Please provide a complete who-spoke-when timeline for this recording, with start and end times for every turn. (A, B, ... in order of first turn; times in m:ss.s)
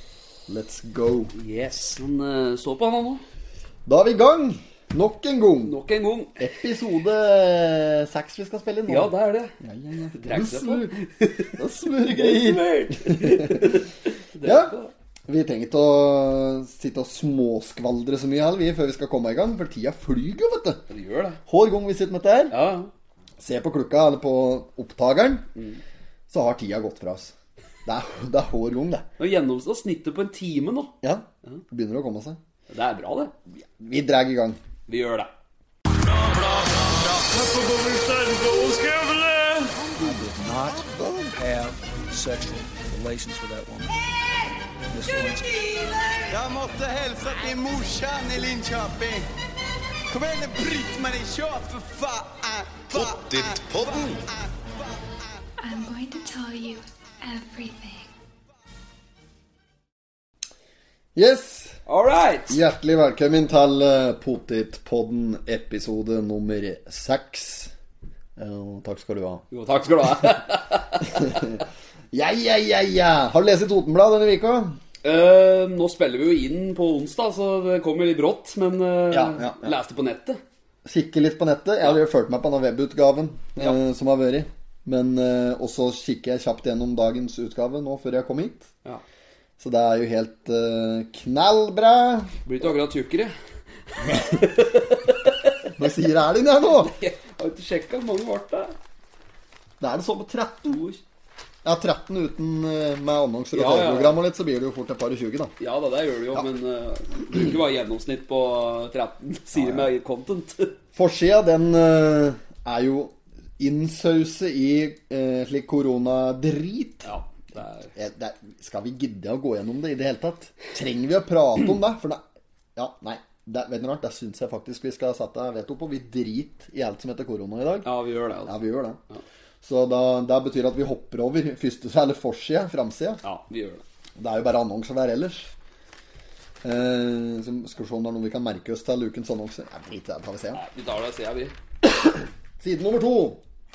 0:00.5-0:01.3 A
0:01.3-0:03.2 B
0:03.8-0:05.8 A
0:05.6-0:06.4 B
0:06.4-0:11.0 A
0:08.8-0:09.5 B
0:10.1-0:14.9 B
0:11.5-0:13.8 A
0:14.4-0:14.8 A
0:15.3-0:20.8 A
0:20.9-0:21.4 B
0:21.4-0:22.6 A
0:22.5-0:22.9 B
0:23.4-0:25.5 A
0:25.6-0:25.8 B
0:26.3-0:27.3 A
0:27.8-0:29.0 A
0:29.2-0:30.9 B
0:31.0-0:32.4 A
0:32.7-0:33.3 B
0:33.6-0:34.6 A
0:34.9-0:35.3 B
0:35.9-0:46.3 C
0:39.8-0:41.4 A
0:46.3-0:49.3 D
0:50.1-0:55.0 D
0:52.9-0:54.2 C
0:55.6-0:58.1 E
1:01.1-1:01.8 A
1:01.8-1:02.6 B
1:02.5-1:07.7 A
1:08.4-1:09.4 A
1:09.5-1:11.4 B
1:11.1-1:14.8 A
1:15.0-1:20.4 B
1:19.1-1:19.7 A
1:20.8-1:28.7 A
1:29.6-1:32.4 A
1:32.4-1:33.3 B
1:33.9-1:35.5 B
1:35.7-1:36.9 A
1:36.8-1:38.8 B
1:39.8-1:40.8 A
1:40.7-1:41.0 B
1:41.6-1:45.5 A
1:43.5-1:44.2 B
1:45.6-1:50.7 B
1:49.5-1:49.9 A
1:50.9-1:57.1 A
1:57.0-1:57.9 B
1:57.9-2:02.2 A
2:02.8-2:07.9 A
2:07.8-2:08.6 B
2:08.4-2:09.0 A
2:09.6-2:13.2 A
2:13.2-2:13.8 B
2:14.2-2:15.5 A
2:16.6-2:20.6 A
2:20.5-2:21.5 B
2:22.6-2:23.4 A